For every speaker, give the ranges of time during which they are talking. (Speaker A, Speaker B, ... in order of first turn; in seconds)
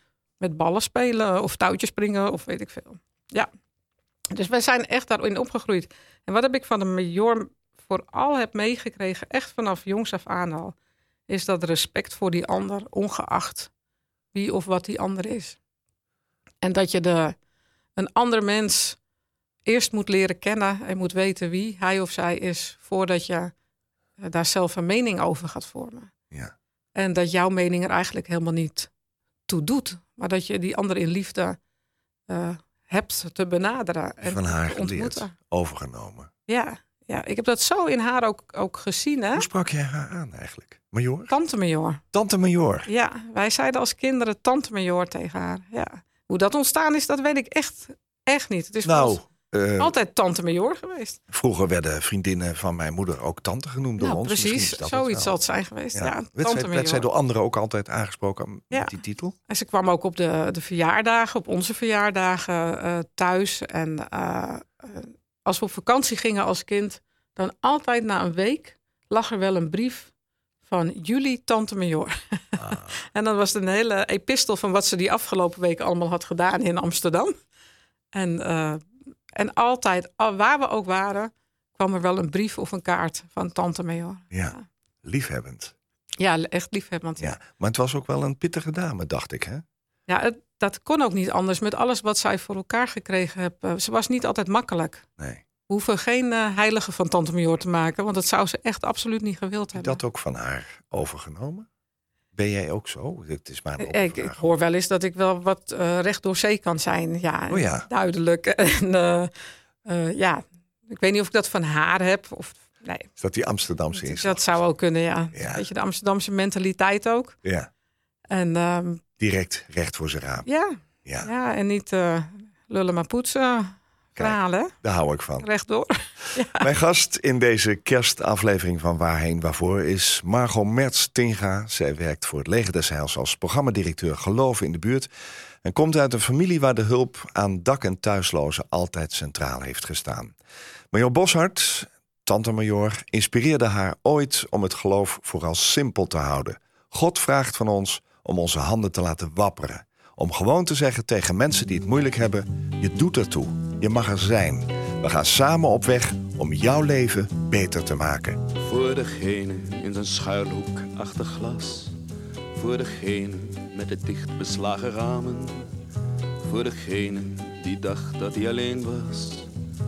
Speaker A: 0.4-3.5, 4.3-10.7, 11.3-13.7, 14.3-15.6, 16.6-17.4, 17.9-19.0, 19.6-23.5, 24.2-26.1, 26.9-28.9, 29.5-31.6, 32.3-35.3, 36.5-39.5, 41.3-42.0, 42.9-49.2, 49.8-51.2, 54.0-57.0, 59.5-70.1, 70.7-77.3, 78.1-78.8, 79.3-84.6, 86.2-87.3, 90.1-95.0, 95.7-100.0, 103.8-109.3, 109.8-113.1, 113.9-117.3, 118.3-119.0, 120.5-124.7, 125.4-126.7
Speaker B: 34.2-36.3, 39.3-41.3, 42.1-42.9, 48.8-49.9, 51.3-55.4, 55.9-59.4, 72.5-72.9, 84.3-85.7, 87.2-89.6, 95.2-95.4, 99.7-101.7, 102.3-104.5, 107.5-107.9, 113.2-114.5, 115.3-115.7, 117.4-117.7, 119.2-120.5, 124.2-125.5, 126.5-135.1, 135.6-140.3, 140.9-158.4
Speaker C: 158.6-162.0, 162.6-165.7, 166.4-169.5